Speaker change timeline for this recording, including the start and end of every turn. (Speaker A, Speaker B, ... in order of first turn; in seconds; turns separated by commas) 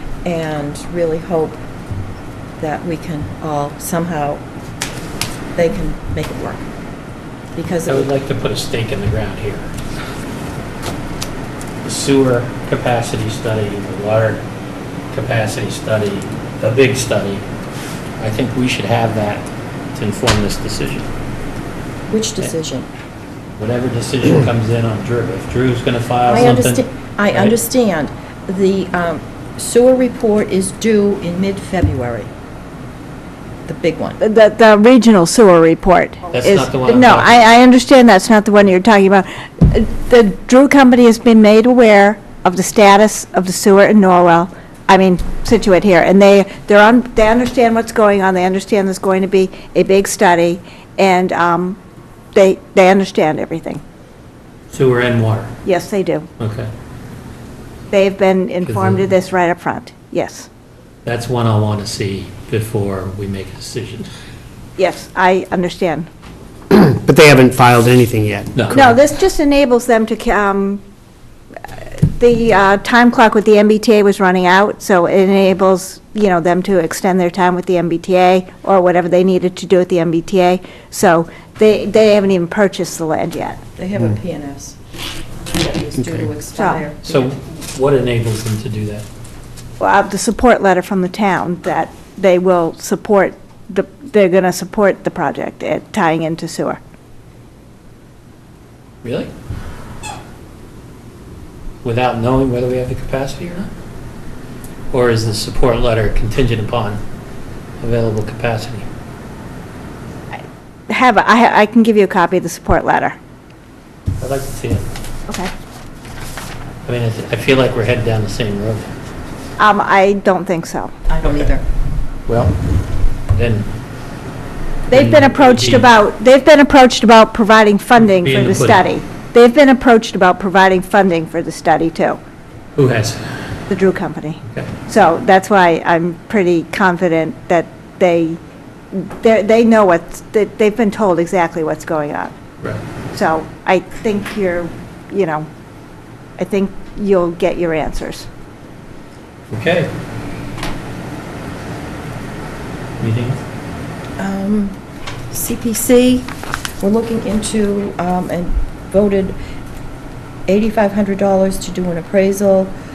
Speaker A: 0.2-1.6, Speaker A: 2.6-4.4, Speaker A: 5.5-6.7, Speaker A: 7.5-8.1, Speaker B: 7.9-9.7, Speaker B: 11.8-14.4, Speaker B: 15.1-17.4, Speaker B: 18.2-21.1, Speaker A: 22.1-22.9, Speaker B: 23.6-27.6, Speaker A: 26.3-32.3, Speaker A: 33.7-34.2, Speaker C: 34.2-51.8, Speaker B: 36.3-37.4, Speaker C: 52.3-53.8, Speaker B: 54.7-55.6, Speaker C: 55.6-56.3, Speaker B: 56.4-56.7, Speaker C: 57.9-60.5, Speaker B: 58.6-59.1, Speaker B: 61.0-64.1, Speaker C: 64.8-66.1, Speaker D: 66.7-69.0, Speaker B: 68.5-68.9, Speaker C: 68.7-70.8, Speaker C: 71.7-83.6, Speaker A: 83.8-84.8, Speaker A: 85.5-87.0, Speaker D: 86.0-86.3, Speaker C: 86.5-86.8, Speaker B: 87.0-89.0, Speaker C: 89.8-96.8, Speaker B: 99.0-99.3, Speaker B: 101.8-103.7, Speaker B: 104.9-107.0, Speaker B: 107.8-108.9, Speaker C: 110.3-113.2, Speaker B: 114.2-114.8, Speaker B: 116.8-118.9, Speaker C: 119.6-120.9, Speaker A: 121.1-121.6, Speaker B: 121.2-121.5, Speaker B: 122.3-122.6, Speaker B: 123.3-123.7, Speaker B: 124.9-125.9, Speaker C: 124.9-132.2, Speaker B: 128.1-128.8, Speaker B: 132.8-133.2, Speaker C: 133.7-138.4, Speaker C: 138.9-142.4, Speaker C: 143.1-145.5, Speaker C: 146.4-148.2, Speaker B: 149.5-149.9, Speaker B: 153.0-153.4, Speaker A: 154.2-154.8, Speaker A: 155.3-159.4, Speaker A: 160.5-162.8